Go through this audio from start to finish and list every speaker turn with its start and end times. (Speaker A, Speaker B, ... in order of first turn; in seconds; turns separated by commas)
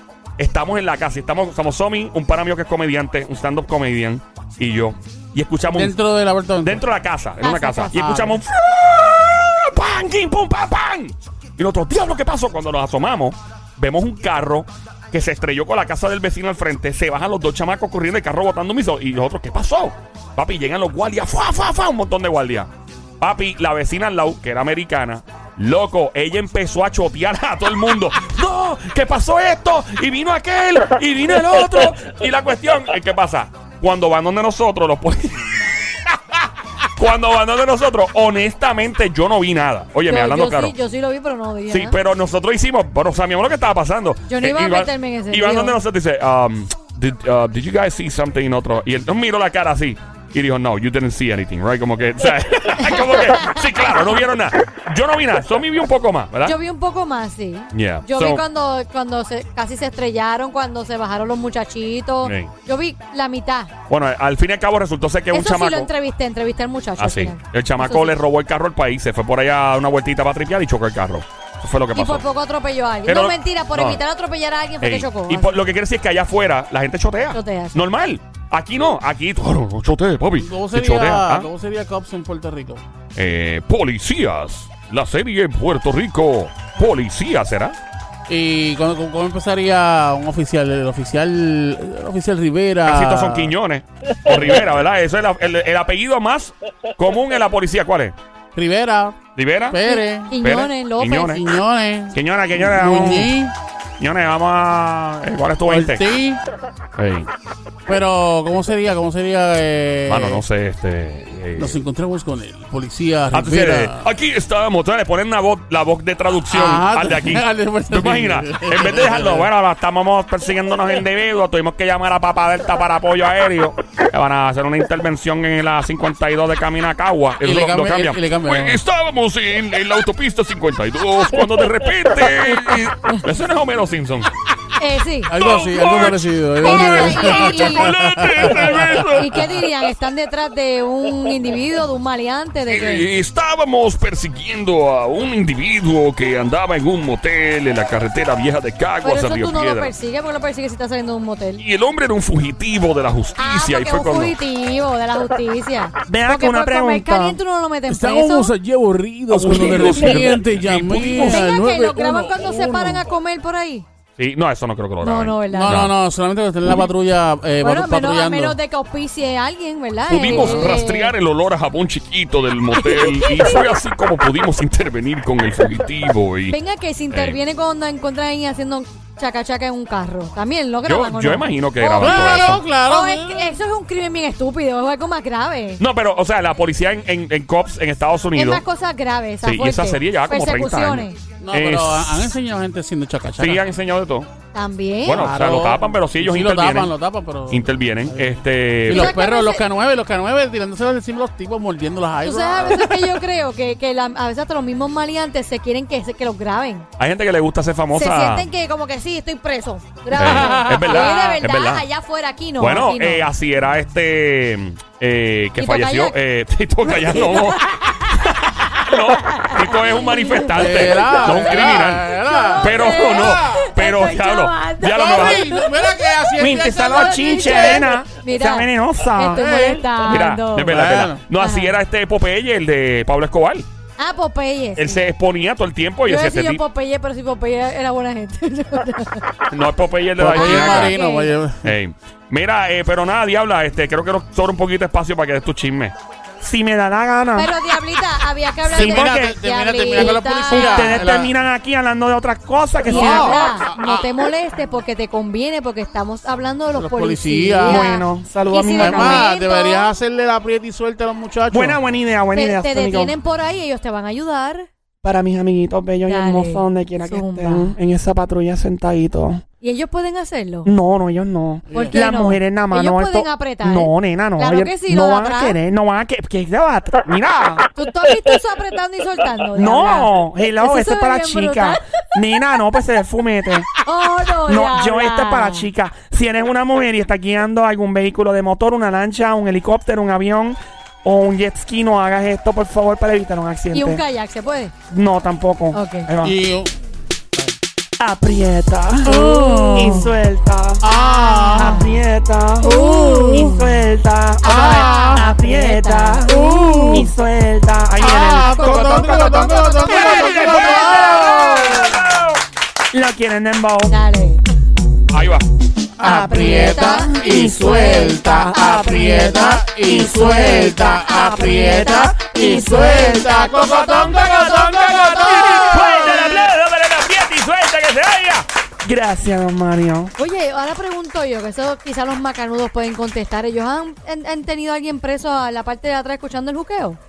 Speaker A: 0.4-6.0, Speaker B: 5.7-6.8, Speaker A: 6.6-22.7, Speaker C: 7.4-7.9, Speaker B: 7.9-8.4, Speaker A: 23.2-35.7, Speaker A: 37.0-40.7, Speaker C: 40.1-42.0, Speaker A: 41.7-56.5, Speaker C: 44.3-45.8, Speaker C: 52.9-53.6, Speaker C: 56.4-63.7, Speaker A: 57.7-58.4, Speaker A: 62.2-62.5, Speaker A: 63.9-65.9, Speaker C: 65.3-68.2, Speaker A: 67.0-72.2, Speaker C: 71.9-75.6, Speaker A: 73.0-74.0, Speaker A: 74.8-81.5, Speaker C: 77.3-77.8, Speaker B: 80.4-82.8, Speaker A: 83.2-87.8, Speaker B: 88.3-93.5, Speaker A: 92.8-98.1, Speaker B: 98.5-99.2, Speaker A: 99.3-99.8, Speaker B: 99.7-100.3, Speaker C: 99.8-101.4, Speaker A: 100.4-101.5, Speaker B: 101.3-103.5, Speaker A: 102.1-103.3, Speaker A: 104.0-106.1, Speaker B: 105.7-106.4, Speaker A: 107.0-107.3, Speaker B: 107.9-110.4, Speaker A: 110.1-111.8, Speaker B: 111.5-114.0, Speaker A: 113.3-134.3, Speaker B: 116.5-119.5, Speaker B: 127.4-128.8, Speaker C: 134.8-135.3, Speaker B: 135.3-139.1, Speaker A: 135.3-139.6, Speaker C: 136.6-137.9, Speaker C: 139.1-143.1, Speaker A: 142.7-149.9, Speaker C: 149.0-151.6, Speaker A: 151.6-154.3, Speaker C: 153.4-158.5, Speaker D: 156.1-157.4, Speaker B: 157.9-163.1, Speaker A: 159.3-161.4, Speaker C: 159.5-159.9, Speaker C: 161.1-163.8, Speaker A: 164.2-165.9, Speaker C: 165.0-165.8, Speaker B: 165.5-168.6, Speaker C: 167.6-171.1, Speaker A: 170.1-176.6, Speaker B: 170.2-170.8, Speaker C: 172.7-173.7, Speaker C: 176.5-185.8, Speaker A: 177.1-177.4, Speaker A: 180.8-182.6, Speaker B: 182.0-183.5, Speaker A: 185.8-188.6, Speaker C: 188.3-191.2, Speaker A: 189.4-192.3, Speaker B: 191.4-193.6, Speaker A: 193.4-194.3, Speaker C: 194.5-195.3, Speaker A: 195.0-196.9, Speaker B: 195.1-203.2, Speaker A: 197.5-199.2, Speaker C: 198.9-199.6, Speaker C: 202.2-206.9, Speaker A: 207.0-208.5, Speaker C: 207.9-213.3, Speaker B: 210.1-211.0, Speaker A: 210.1-211.8, Speaker A: 212.6-225.6, Speaker C: 215.6-216.1, Speaker C: 216.8-230.8, Speaker B: 220.5-223.7, Speaker B: 224.9-227.9, Speaker D: 226.4-229.4, Speaker B: 229.3-229.9, Speaker A: 230.0-233.7, Speaker B: 230.7-231.2, Speaker C: 231.4-231.8, Speaker C: 234.0-235.0, Speaker A: 234.8-236.6, Speaker C: 236.0-239.5, Speaker A: 239.5-240.9, Speaker B: 240.2-241.7, Speaker C: 240.3-241.3, Speaker A: 241.6-245.9, Speaker D: 246.4-247.5, Speaker C: 247.3-251.0, Speaker D: 248.7-249.4, Speaker B: 248.7-251.3, Speaker D: 250.0-253.5, Speaker B: 252.8-254.1, Speaker C: 252.8-259.9, Speaker B: 256.7-257.9, Speaker D: 257.6-259.2, Speaker B: 258.8-261.8, Speaker D: 261.5-263.1, Speaker C: 262.3-264.7, Speaker D: 265.0-269.4, Speaker C: 266.1-267.8, Speaker C: 269.6-270.7, Speaker D: 270.6-277.7, Speaker B: 271.7-272.0, Speaker C: 271.7-275.6, Speaker C: 277.7-281.9, Speaker D: 279.5-283.7, Speaker C: 283.8-285.7, Speaker D: 284.4-294.0, Speaker C: 293.7-294.7, Speaker D: 294.9-296.4, Speaker C: 295.7-296.1, Speaker B: 296.2-296.7, Speaker D: 298.0-300.9, Speaker B: 299.0-300.1, Speaker C: 299.2-300.0, Speaker B: 300.8-301.8, Speaker C: 300.9-302.0, Speaker D: 301.5-311.9, Speaker B: 302.6-303.5, Speaker C: 302.6-303.7, Speaker C: 304.4-307.1, Speaker B: 304.4-305.2, Speaker B: 306.3-307.1, Speaker B: 308.0-311.7, Speaker C: 308.0-311.9, Speaker A: 310.8-312.4, Speaker D: 312.9-314.0, Speaker C: 313.9-314.4, Speaker A: 315.1-315.4, Speaker B: 316.0-326.4, Speaker D: 316.0-326.4, Speaker C: 316.0-318.3, Speaker C: 320.9-325.8, Speaker A: 325.5-328.4, Speaker D: 328.8-330.1, Speaker C: 330.1-337.0